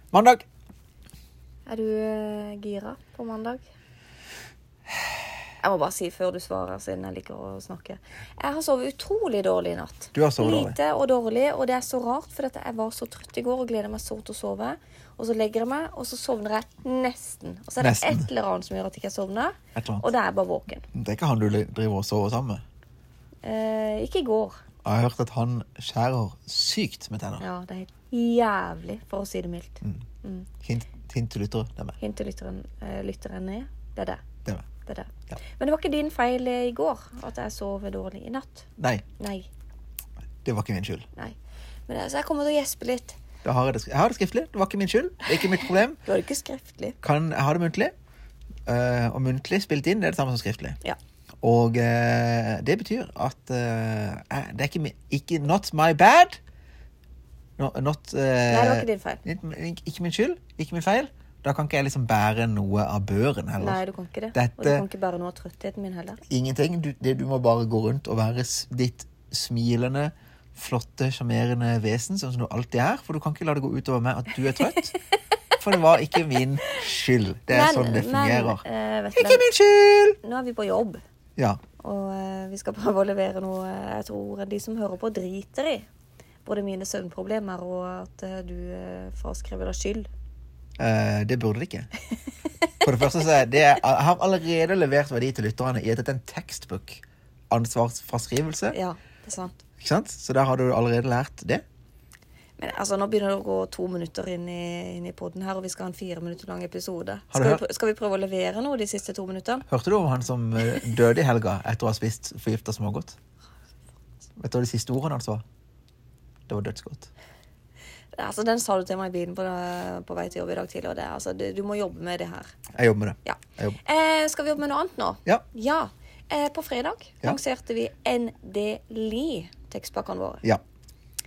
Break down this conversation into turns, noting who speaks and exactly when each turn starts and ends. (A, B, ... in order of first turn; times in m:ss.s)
0:00.1-0:00.4 A
0:01.6-0:03.6 B
0:05.6-0:20.8 B
0:10.1-0:10.8 A
0:17.8-0:18.3 A
0:19.7-0:20.1 A
0:20.9-0:22.6 A
0:23.4-0:24.6 B
0:24.8-0:27.4 A
0:27.4-0:30.5 B
0:30.6-0:32.0 A
0:32.0-0:34.2 B
0:34.8-0:38.7 B
0:38.8-0:39.0 A
0:39.2-0:39.5 B
0:40.4-0:41.0 A
0:41.9-0:43.2 B
0:43.4-0:46.0 A
0:46.0-0:47.0 B
0:47.0-0:47.9 A
0:48.7-0:50.8 A
0:51.4-0:56.4 A
0:57.6-1:03.8 A
0:58.5-0:59.2 B
1:03.6-1:06.2 B
1:04.3-1:04.8 A
1:06.3-1:14.9 A
1:15.6-1:18.6 A
1:17.5-1:19.4 B
1:19.1-1:20.2 A
1:20.2-1:21.0 B
1:21.8-1:25.8 B
1:26.4-1:30.1 B
1:30.8-1:31.9 A
1:32.8-1:38.8 A
1:38.7-1:39.6 B
1:39.8-1:41.6 A
1:42.6-1:49.6 B
1:47.3-1:47.6 A
1:49.7-1:53.2 A
1:54.4-1:55.4 A
1:56.5-1:57.1 A
1:58.1-2:02.5 B
2:02.7-2:03.8 A
2:03.2-2:10.4 B